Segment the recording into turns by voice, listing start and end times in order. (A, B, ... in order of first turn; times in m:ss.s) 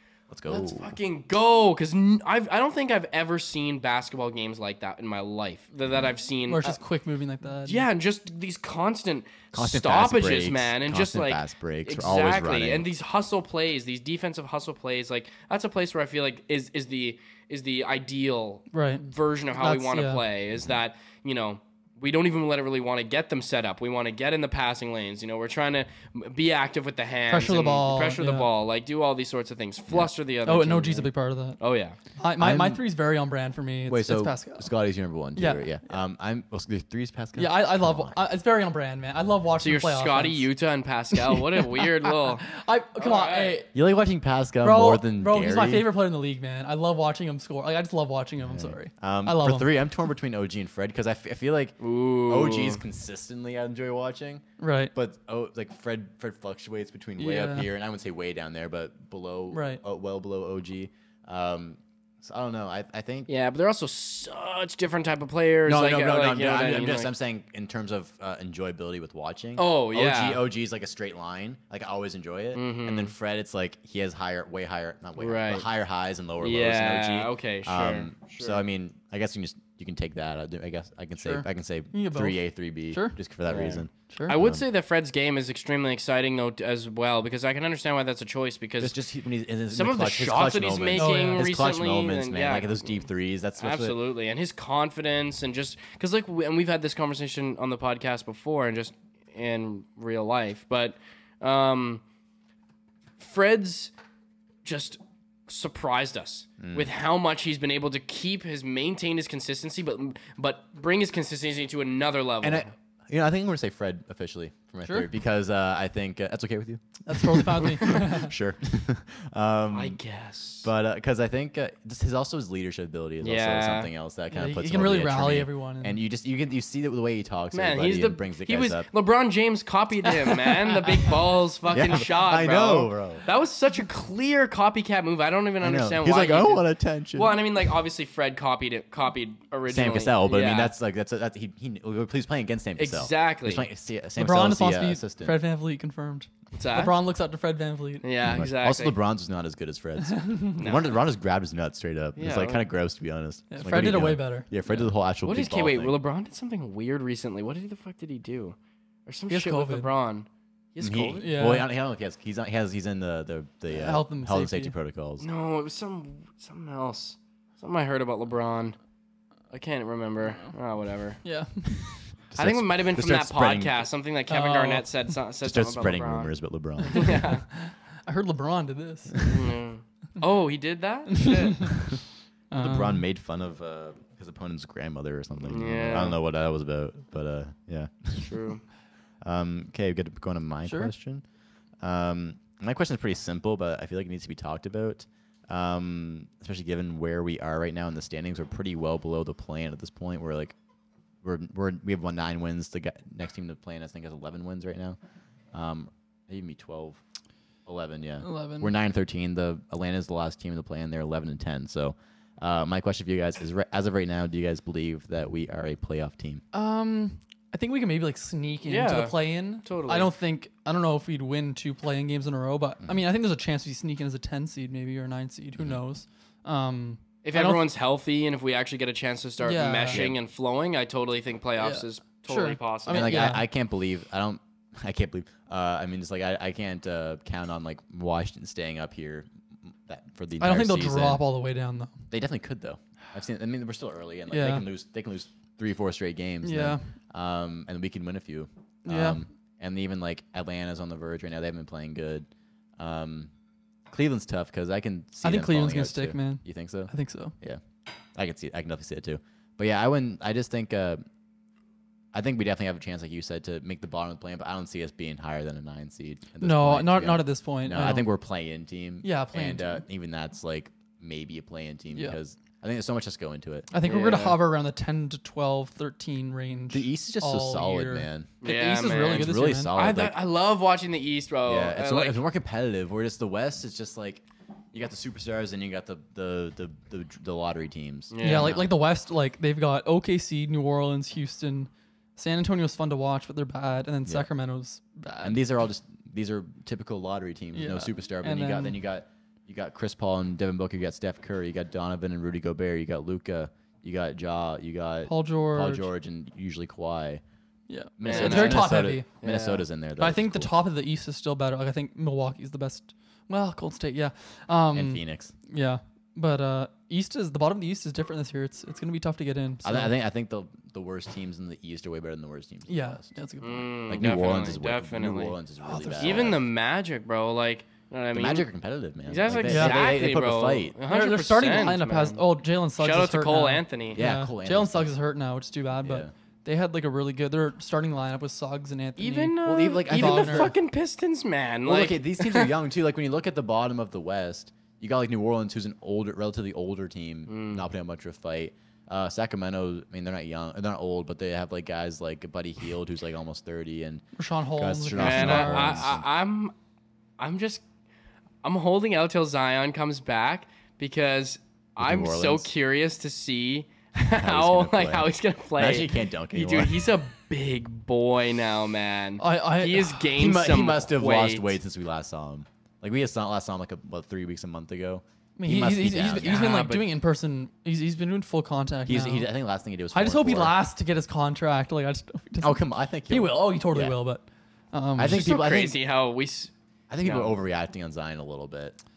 0:00.3-0:00.9 A
0:00.5-0:06.8 B
0:06.5-0:07.9 C
0:07.6-0:32.0 B
0:09.5-0:12.9 A
0:18.7-0:20.2 C
0:27.3-0:28.5 C
0:30.4-0:31.6 C
0:32.2-0:34.7 C
0:32.4-0:32.8 A
0:33.9-0:38.2 A
0:35.4-0:35.8 C
0:37.4-0:40.5 C
0:39.6-0:42.4 B
0:41.2-0:43.7 C
0:43.0-0:43.6 B
0:43.7-0:45.9 A
0:44.6-0:49.7 C
0:48.4-0:54.4 A
0:51.8-0:52.8 B
0:54.6-0:54.9 C
0:55.0-1:03.3 A
0:57.2-0:57.7 C
0:59.5-0:59.8 C
1:03.3-1:07.1 B
1:05.7-1:24.6 A
1:09.6-1:10.4 B
1:12.6-1:13.1 B
1:15.2-1:15.7 B
1:16.4-1:18.6 B
1:21.2-1:23.2 C
1:23.5-1:29.0 B
1:24.1-1:24.4 C
1:28.8-1:34.0 A
1:29.7-1:32.9 B
1:31.0-1:31.5 C
1:33.6-1:42.0 B
1:43.2-1:43.9 B
1:44.6-1:52.7 B
1:46.6-1:46.9 A
1:52.4-2:00.0 A
1:57.0-1:58.4 C
1:59.7-2:00.7 B
2:00.6-2:08.9 A
2:03.2-2:03.9 B
2:04.3-2:06.0 C
2:07.5-2:20.7 B
2:10.2-2:11.1 C
2:11.7-2:13.2 A
2:15.6-2:17.5 A
2:19.7-2:25.4 A
2:22.8-2:23.6 B
2:24.2-2:28.1 C
2:26.6-2:27.0 B
2:28.0-2:29.0 B
2:28.2-2:36.0 A
2:30.6-2:30.9 B
2:32.2-2:32.7 B
2:33.5-2:34.5 C
2:34.7-2:41.3 B
2:39.3-2:39.9 C
2:40.8-2:45.2 A
2:41.2-2:41.7 C
2:43.7-2:44.7 C
2:45.2-2:48.8 B
2:49.5-2:51.2 B
2:51.2-2:52.1 C
2:52.3-2:53.9 A
2:52.4-2:56.3 B
2:54.3-2:55.1 C
2:55.4-2:57.2 A
2:56.8-2:57.4 B
2:56.9-2:59.3 C
2:59.3-3:01.6 B
3:01.1-3:01.9 C
3:02.5-3:03.0 C
3:02.5-3:08.4 A
3:05.4-3:06.2 B
3:08.2-3:08.6 B
3:09.2-3:11.2 A
3:10.6-3:10.9 C
3:11.8-3:20.6 A
3:21.2-3:25.0 A
3:25.5-3:27.0 A
3:27.7-3:36.4 A
3:28.2-3:28.7 C
3:36.5-3:47.6 C
3:38.6-3:40.1 B
3:47.2-3:53.2 B
3:49.4-3:50.0 C
3:49.9-3:50.2 A
3:51.6-3:53.4 C
3:52.9-4:01.2 A
4:00.4-4:02.0 C
4:02.1-4:12.3 A
4:04.3-4:04.7 C
4:06.4-4:06.9 C
4:08.8-4:09.2 C
4:12.8-4:13.3 A
4:13.9-4:17.6 A
4:15.2-4:17.3 C
4:18.2-4:21.0 A
4:22.1-4:33.7 A
4:26.4-4:28.1 C
4:29.0-4:29.8 C
4:33.7-4:39.8 C
4:33.8-4:34.4 B
4:36.7-4:38.4 A
4:38.4-4:42.2 B
4:39.1-4:40.2 A
4:41.5-4:48.7 A
4:48.1-4:48.6 B
4:48.2-4:55.4 C
4:55.2-5:07.2 A
4:57.5-4:58.8 C
5:05.1-5:05.9 C
5:07.7-5:09.1 C
5:08.0-5:10.5 A
5:08.0-5:09.6 B
5:10.0-5:19.9 C
5:14.7-5:15.3 A
5:19.6-5:23.1 A
5:22.7-5:23.7 C
5:23.4-5:25.4 B
5:23.9-5:26.4 A
5:25.6-5:26.4 C
5:26.0-5:28.5 B
5:28.1-5:30.8 A
5:29.1-5:32.2 B
5:29.4-5:30.0 C
5:30.9-5:40.6 C
5:32.8-5:34.0 B
5:33.9-5:34.9 A
5:35.8-5:36.1 A
5:39.0-5:42.5 B
5:39.4-5:40.6 A
5:41.7-5:54.0 A
5:47.3-5:47.6 B
5:54.2-5:55.9 C
5:54.6-5:56.0 A
5:55.0-5:56.5 B
5:57.2-5:57.6 B
5:58.4-6:11.6 B
6:01.8-6:02.5 A
6:04.1-6:07.0 A
6:09.2-6:10.1 C
6:10.2-6:16.7 A
6:15.4-6:19.3 C
6:16.2-6:16.9 B
6:18.9-6:20.6 A
6:19.9-6:25.2 C
6:22.4-6:24.0 A
6:25.0-6:25.8 A
6:25.0-6:26.5 B
6:26.9-6:28.8 A
6:27.0-6:27.4 B